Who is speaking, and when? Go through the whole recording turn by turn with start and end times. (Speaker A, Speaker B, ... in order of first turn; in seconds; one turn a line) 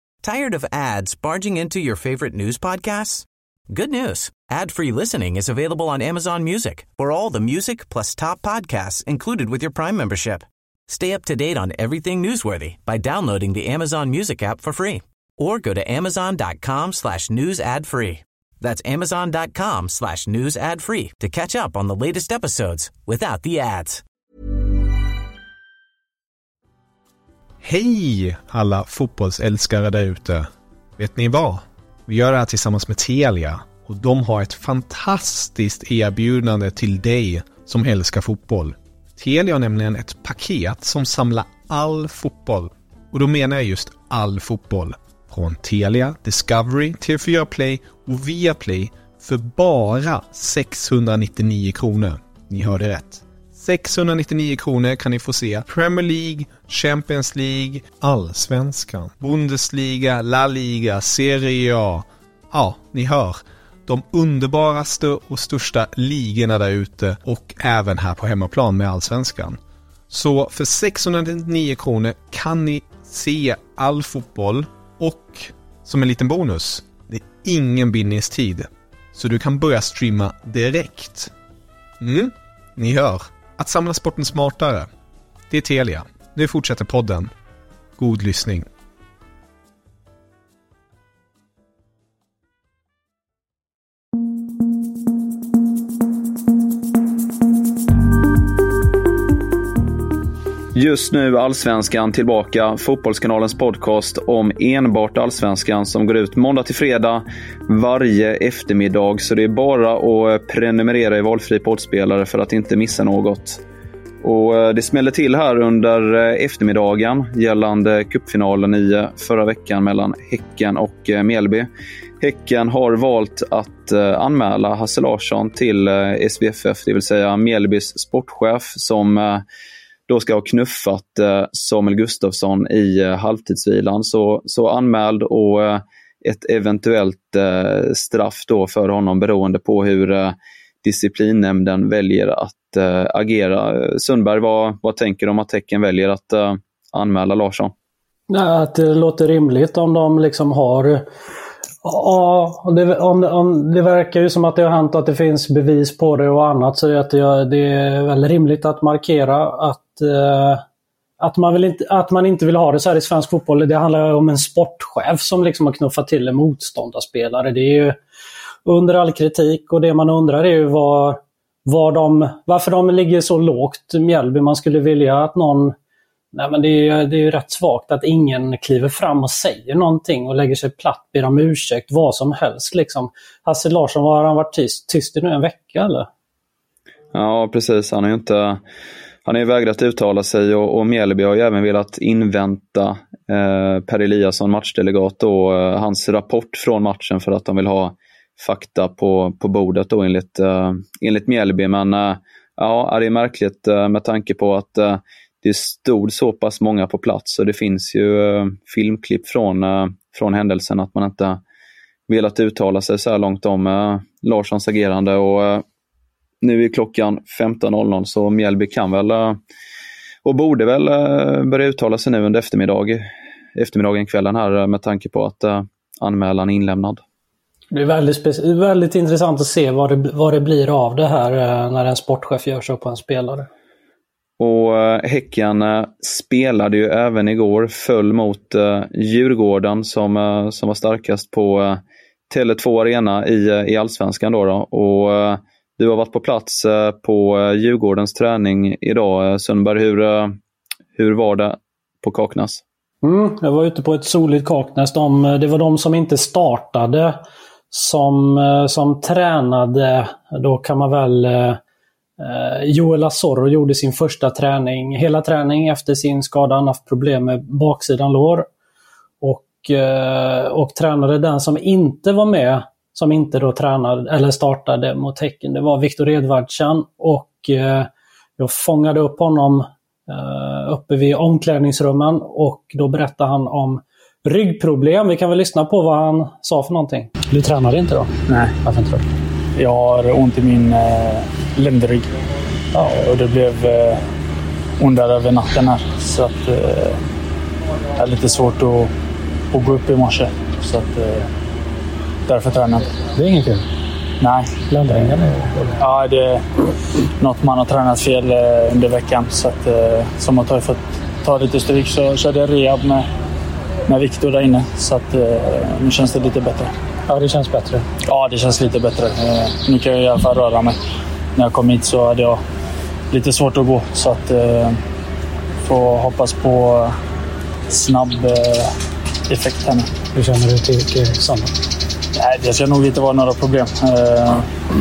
Speaker A: 0.2-24.0
Speaker B: 27.6-69.6
Speaker B: 70.1-81.3
Speaker B: 82.0-84.9
Speaker B: 85.5-87.3
Speaker B: 88.0-88.7
Speaker C: 100.7-113.6
Speaker C: 114.2-121.7
Speaker C: 122.2-129.4
Speaker C: 130.1-147.7
Speaker D: 148.3-151.1
Speaker D: 151.8-160.6
Speaker D: 161.2-168.0
Speaker D: 168.7-175.7
Speaker D: 176.3-186.1
Speaker C: 187.1-188.6
Speaker C: 189.2-211.4
Speaker C: 212.1-215.6
Speaker C: 216.4-219.4
Speaker C: 220.2-227.0
Speaker D: 227.7-233.5
Speaker C: 234.4-250.4
Speaker C: 250.9-252.6
Speaker D: 253.0-257.2
Speaker D: 257.7-261.6
Speaker D: 262.2-268.5
Speaker D: 269.2-288.1
Speaker E: 288.3-288.5
Speaker D: 288.6-289.1
Speaker E: 289.6-292.1
Speaker D: 292.7-293.0
Speaker E: 292.9-294.0
Speaker E: 294.8-297.0
Speaker E: 298.0-298.9
Speaker E: 299.5-301.3
Speaker E: 302.3-302.9
Speaker D: 303.1-303.6
Speaker E: 304.2-304.5
Speaker D: 304.7-305.8
Speaker E: 305.8-306.4
Speaker E: 307.2-313.1
Speaker E: 313.9-316.7
Speaker D: 317.1-317.9
Speaker E: 318.1-320.8
Speaker E: 321.4-322.4
Speaker E: 323.1-324.8
Speaker E: 325.6-326.9
Speaker E: 327.7-328.7
Speaker E: 329.3-329.9
Speaker D: 330.1-331.5
Speaker E: 332.2-334.5